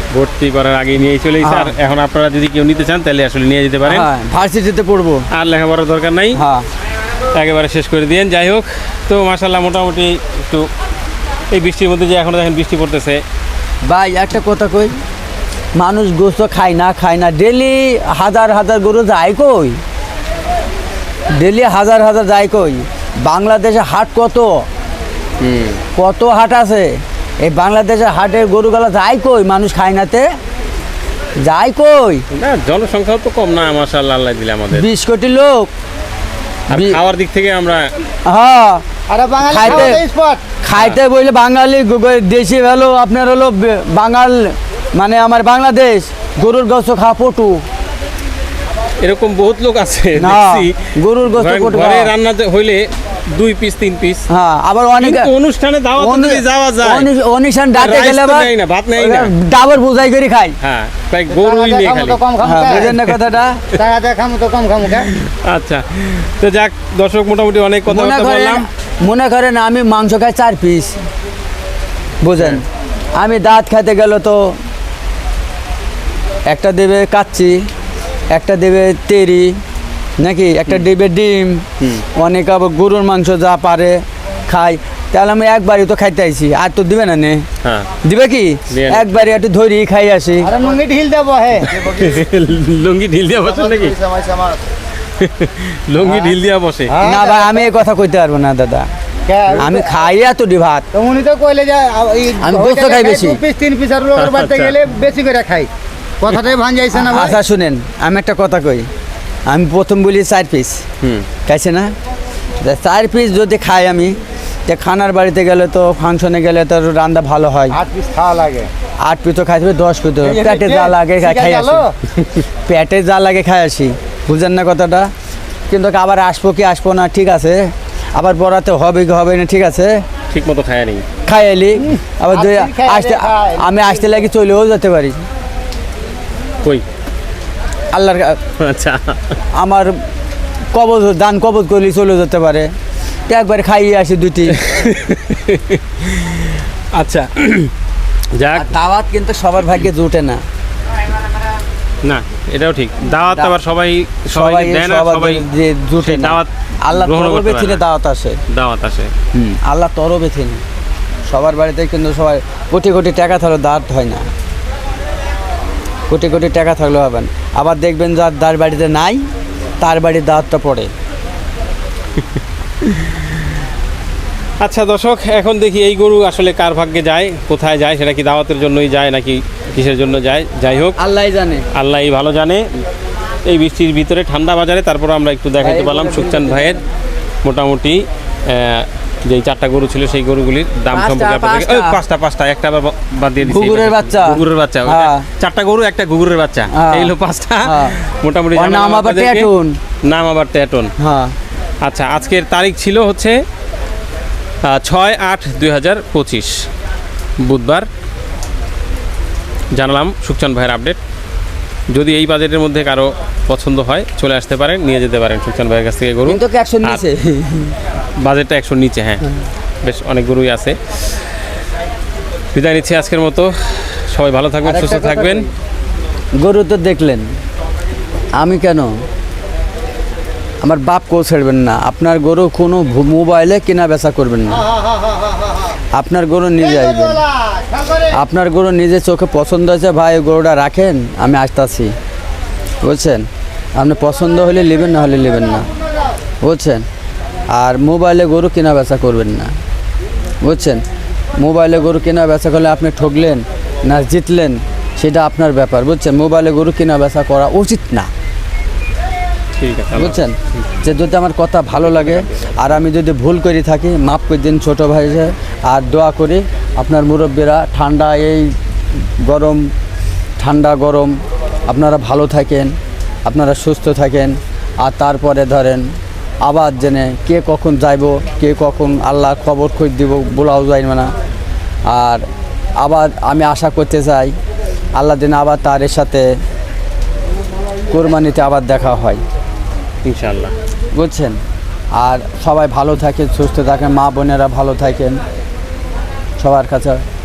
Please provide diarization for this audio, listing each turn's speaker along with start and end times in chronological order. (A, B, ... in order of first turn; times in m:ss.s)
0:00.1-0:04.1 A
0:01.4-0:01.8 B
0:03.9-0:05.3 B
0:05.3-0:06.4 A
0:06.3-0:06.7 B
0:07.3-0:10.7 A
0:11.5-0:13.2 A
0:13.8-0:15.0 B
0:15.8-0:19.8 B
0:21.4-0:24.6 B
0:25.4-0:25.8 A
0:26.0-0:30.3 B
0:31.4-0:32.2 B
0:32.4-0:34.8 A
0:34.7-0:35.7 B
0:36.7-0:37.0 B
0:36.7-0:37.9 A
0:38.3-0:38.8 B
0:39.1-0:40.4 C
0:39.5-0:40.0 B
0:39.6-0:39.9 A
0:40.6-0:47.6 B
0:49.0-0:54.2 A
0:50.2-0:52.1 B
0:54.3-0:55.3 B
0:55.0-0:57.1 A
0:56.0-1:00.6 B
0:57.8-0:59.3 A
1:00.6-1:02.2 A
1:01.3-1:03.0 C
1:02.4-1:03.7 B
1:03.7-1:05.1 C
1:05.1-1:08.7 A
1:07.9-1:11.0 B
1:12.2-1:14.6 B
1:16.5-1:17.6 B
1:18.3-1:19.6 B
1:20.2-1:21.6 B
1:22.2-1:27.5 B
1:27.6-1:27.9 A
1:28.0-1:30.5 B
1:28.7-1:29.4 A
1:30.4-1:32.2 C
1:31.7-1:33.9 A
1:33.4-1:34.6 C
1:35.2-1:37.0 A
1:36.9-1:37.7 C
1:37.0-1:38.9 B
1:39.3-1:39.9 C
1:39.6-1:40.9 B
1:40.9-1:45.7 C
1:42.4-1:43.4 B
1:44.2-1:44.8 A
1:46.2-1:47.4 C
1:46.9-1:48.9 B
1:49.5-1:50.8 B
1:51.0-1:51.3 A
1:51.5-1:51.9 B
1:52.6-1:54.2 B
1:54.7-1:57.8 B
1:57.7-1:58.7 C
1:59.0-2:01.8 B
2:00.2-2:02.0 C
2:02.7-2:05.1 B
2:05.7-2:10.0 B
2:10.3-2:11.0 A
2:11.3-2:15.2 B
2:12.3-2:13.8 C
2:17.9-2:18.4 B
2:18.6-2:19.2 A
2:19.6-2:19.9 B
2:20.7-2:22.7 B
2:23.3-2:24.7 B
2:24.5-2:27.7 A
2:28.4-2:28.7 A
2:28.5-2:30.4 B
2:32.0-2:35.4 A
2:33.2-2:33.6 B
2:34.3-2:38.4 B
2:36.0-2:37.8 A
2:38.5-2:39.1 A
2:39.4-2:40.6 B
2:41.3-2:44.3 B
2:46.1-2:49.2 B
2:49.8-2:50.9 B
2:54.6-3:01.0 A
3:01.0-3:01.7 B
3:01.7-3:02.6 A
3:03.4-3:06.8 A
3:05.6-3:06.8 B
3:07.4-3:19.5 A
3:10.9-3:12.0 B
3:13.4-3:15.3 B
3:16.7-3:18.0 B
3:18.6-3:19.8 B
3:20.1-3:20.9 A
3:21.0-3:21.4 B
3:21.8-3:23.4 A
3:24.6-3:26.6 A
3:27.4-3:27.9 A
3:29.7-3:31.0 A
3:31.9-3:37.0 A
3:36.3-3:37.8 B
3:38.2-3:39.2 A
3:39.8-3:40.8 A
3:42.5-3:45.5 A
3:44.6-3:45.5 B
3:46.4-3:47.3 B
3:48.4-3:49.0 B
3:50.6-3:54.7 B
3:54.6-3:55.7 C
3:55.9-3:57.2 B
3:56.8-3:58.1 C
3:58.1-4:01.9 B
4:02.8-4:05.7 B
4:06.4-4:06.9 B
4:07.5-4:09.5 B
4:10.4-4:10.8 B
4:11.4-4:18.1 B
4:19.6-4:20.7 A
4:20.0-4:28.6 B
4:21.8-4:22.7 A
4:29.2-4:29.7 B
4:30.4-4:32.8 B
4:33.3-4:35.9 B
4:36.4-4:41.1 B
4:41.9-4:42.2 B
4:42.8-4:44.4 B
4:45.0-4:46.3 B
4:47.9-4:49.2 B
4:50.0-4:50.5 A
4:50.9-4:51.4 B
4:52.0-4:55.2 B
4:56.4-4:57.0 B